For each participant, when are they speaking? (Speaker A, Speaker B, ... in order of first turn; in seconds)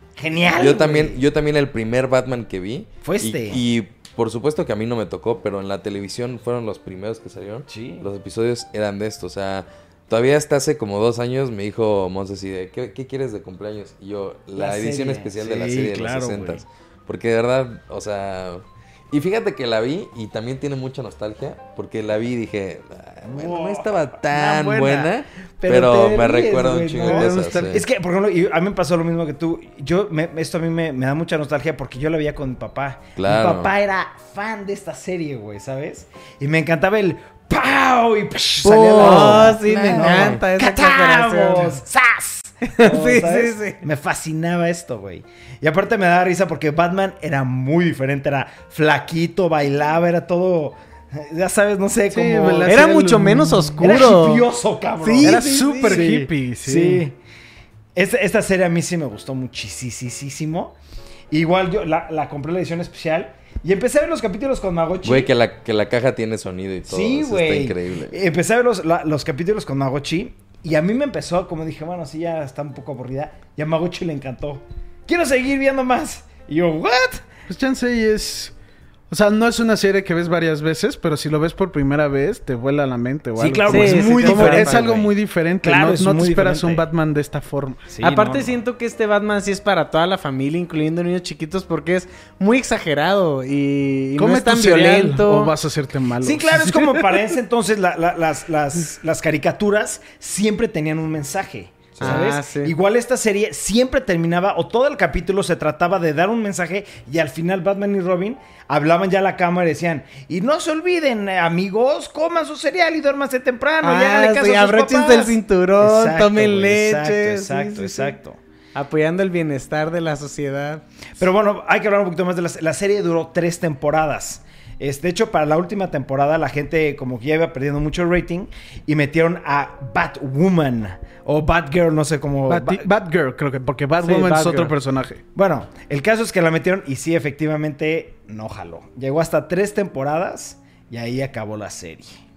Speaker A: 0.2-1.2, 3.0-3.6, 7.7-8.1, 14.5-16.6, 23.2-52.8, 53.8-57.2, 57.9-60.8, 61.3-65.3, 66.8-77.2, 83.4-86.8, 87.9-88.6, 96.2-118.4, 121.2-132.9, 135.3-142.2
Speaker B: 0.6-27.8, 33.2-33.7, 39.0-40.4, 65.0-68.2, 101.9-102.2
Speaker C: 27.0-27.8, 52.1-53.9, 55.2-57.1, 77.5-78.5, 79.1-87.9, 94.2-97.2, 132.5-135.2
Speaker D: 38.6-41.8, 42.7-43.8, 52.6-54.5, 55.0-56.2, 83.7-84.9, 88.0-95.5, 102.0-102.7, 113.8-118.1, 118.7-120.8, 134.0-134.7